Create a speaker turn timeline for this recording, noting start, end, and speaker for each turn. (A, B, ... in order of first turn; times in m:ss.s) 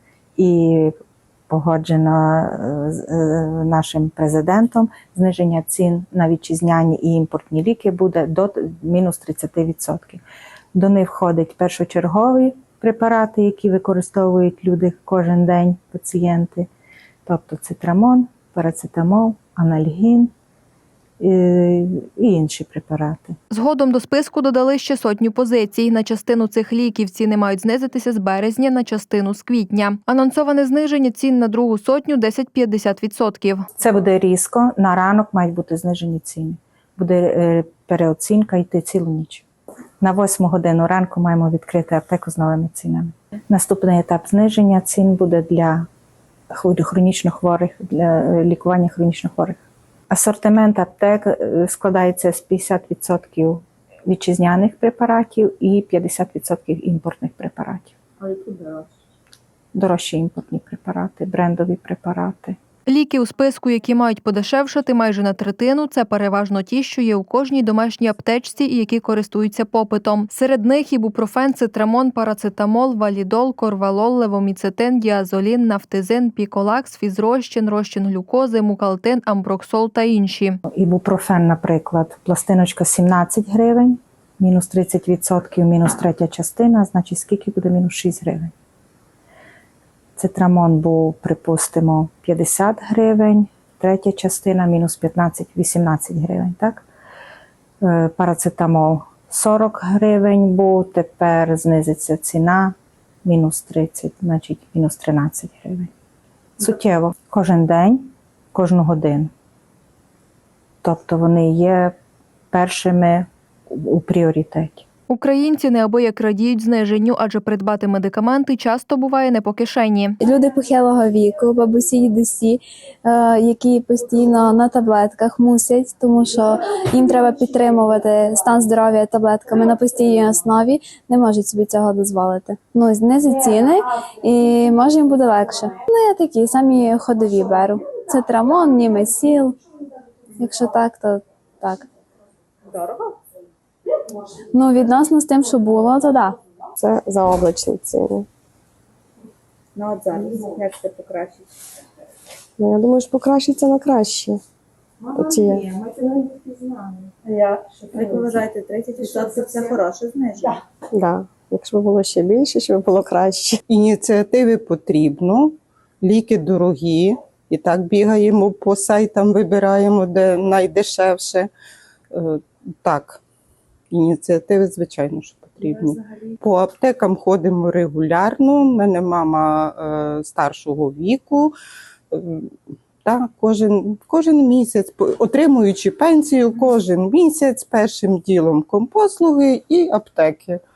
0:00.4-0:00.9 A
0:01.5-0:10.2 A
0:10.7-0:16.7 A
0:17.3-0:20.3 A
0:21.2-0:23.4 A
0:23.5-0:33.7 B
0:33.8-0:39.5 A
0:40.0-0:45.9 A
0:46.5-0:58.0 A
0:58.2-0:58.9 C
0:59.7-1:02.6 A
1:02.9-1:20.6 B
1:20.7-1:28.5 A
1:30.2-1:36.8 A
1:37.8-1:45.9 A
1:46.6-1:49.3 A
1:50.8-1:52.0 A
1:52.5-1:54.8 A
1:55.1-2:00.2 B
2:00.2-2:19.6 D
2:20.4-2:21.9 D
2:22.7-2:23.1 C
2:24.5-2:26.4 D
2:26.8-2:28.3 E
2:29.8-2:31.4 C
2:32.6-2:34.4 E
2:35.2-2:35.7 E
2:36.0-2:36.7 A
2:37.3-2:40.6 C
2:40.9-2:43.6 E
2:43.7-2:51.5 F
2:52.1-2:53.2 F
2:53.9-3:01.5 F
3:02.1-3:02.5 F
3:03.0-3:10.6 F